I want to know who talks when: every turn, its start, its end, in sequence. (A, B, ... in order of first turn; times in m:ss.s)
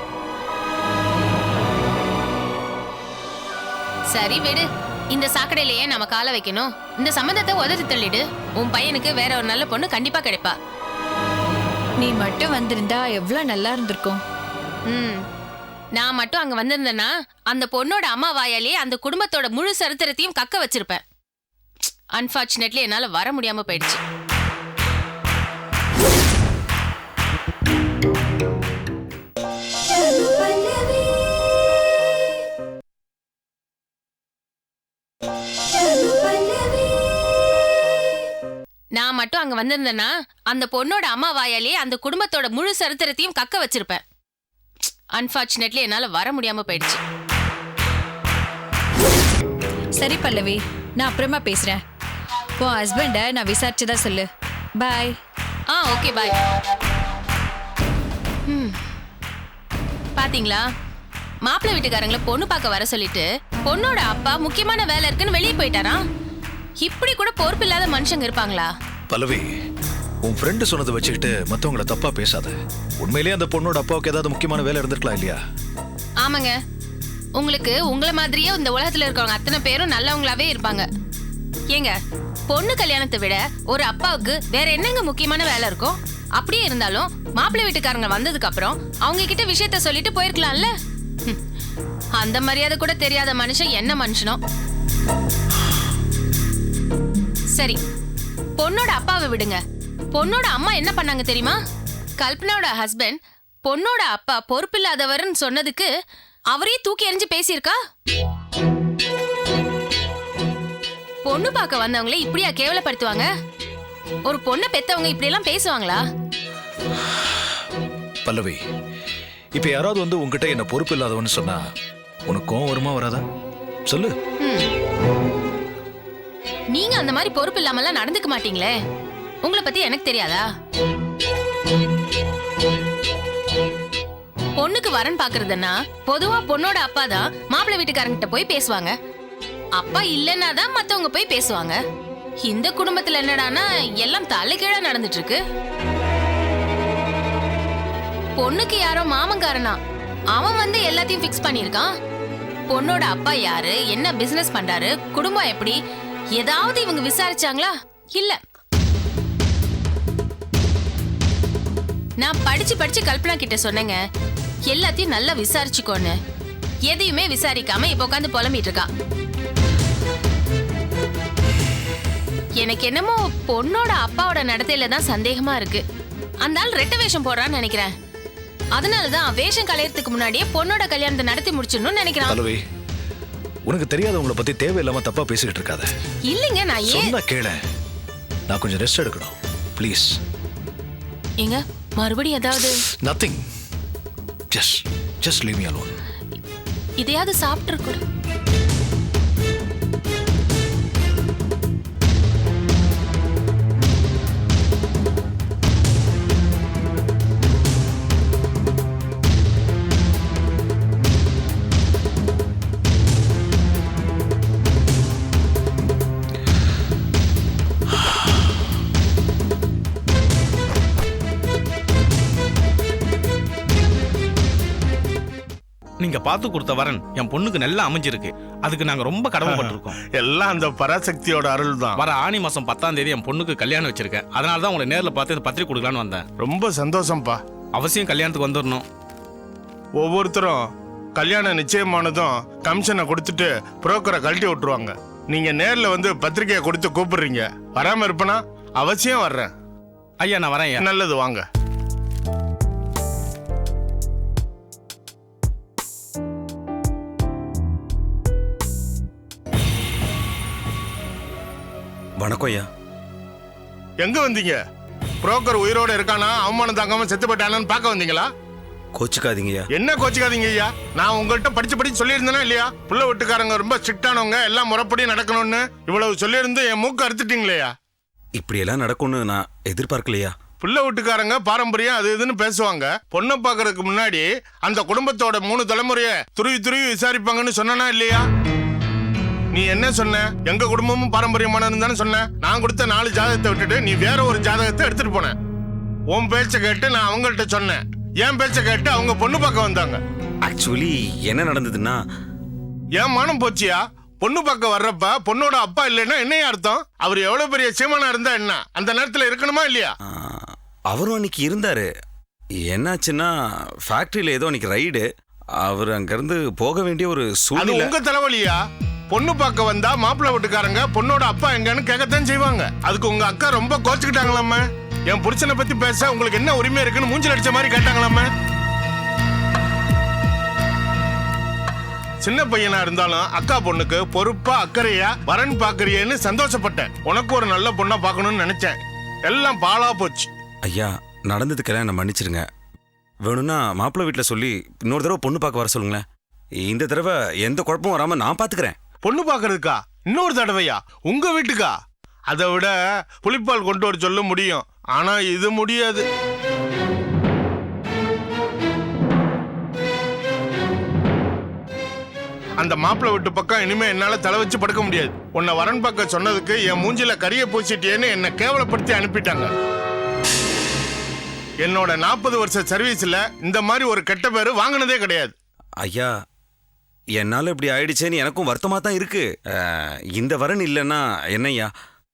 0:04.1-0:10.6 A
0:12.0-0:14.2 B
0:14.9-0:15.2 A
0:16.0-0:21.0 A
0:22.1-0:24.0 A
0:39.0-0:44.0 A
0:45.2-0:47.0 A
0:50.0-0:51.8 B
0:52.6-0:54.3 B
0:54.8-0:55.2 B
0:55.7-0:56.4 A
0:58.5-0:58.8 A
1:00.2-1:00.6 A
1:01.5-1:06.0 A
1:06.8-1:08.7 A
1:09.1-1:09.5 C
1:10.2-1:15.4 C
1:16.2-1:16.6 A
1:17.4-1:20.9 A
1:22.5-1:30.7 A
1:32.2-1:34.4 A
1:38.6-1:39.6 A
1:40.1-1:41.6 A
1:42.2-1:45.9 A
1:46.5-1:47.8 A
1:51.2-1:53.3 A
1:54.3-1:56.0 A
1:58.2-1:58.6 C
1:59.6-2:01.6 C
2:02.3-2:03.2 C
2:03.9-2:04.2 C
2:04.4-2:04.7 A
2:06.7-2:08.7 A
2:09.4-2:10.5 A
2:14.6-2:18.9 A
2:19.8-2:21.8 A
2:22.4-2:25.4 A
2:28.4-2:29.8 A
2:30.3-2:31.9 A
2:32.7-2:35.8 A
2:36.4-2:38.4 A
2:42.2-2:44.0 A
2:44.7-2:46.2 A
2:46.9-2:48.9 A
2:52.6-2:55.8 A
2:56.4-2:57.9 A
2:58.8-3:02.4 A
3:02.3-3:02.6 C
3:03.7-3:05.9 C
3:06.3-3:07.1 A
3:06.9-3:07.6 C
3:08.5-3:10.1 C
3:11.4-3:12.8 A
3:13.0-3:13.4 C
3:14.5-3:16.0 C
3:17.0-3:18.0 A
3:46.0-3:49.9 D
3:49.4-3:52.1 E
3:52.0-3:56.3 D
3:56.4-3:57.4 E
3:57.8-3:58.9 D
4:00.0-4:09.5 E
4:10.2-4:10.8 D
4:10.8-4:11.4 E
4:22.2-4:22.7 F
4:24.0-4:24.6 E
4:25.2-4:28.3 E
4:29.0-4:29.7 F
4:29.7-4:37.7 E
4:38.4-4:40.3 F
4:40.6-4:48.2 E
4:49.5-4:55.4 E
4:56.1-5:00.0 E
5:00.5-5:02.0 F
5:03.0-5:09.9 E
5:10.9-5:11.9 F
5:12.7-5:13.3 F
5:13.9-5:15.0 F
5:15.6-5:18.0 F
5:17.6-5:18.6 E
5:19.1-5:28.3 E
5:32.2-5:38.8 E
5:39.3-5:40.3 E
5:40.6-5:42.4 F
5:43.2-5:46.0 F
5:46.6-5:48.8 F
5:49.0-5:51.7 E
5:52.3-5:56.0 E
6:02.6-6:09.5 E
6:11.6-6:15.3 E
6:15.8-6:16.1 F
6:17.2-6:19.3 F
6:20.2-6:21.7 F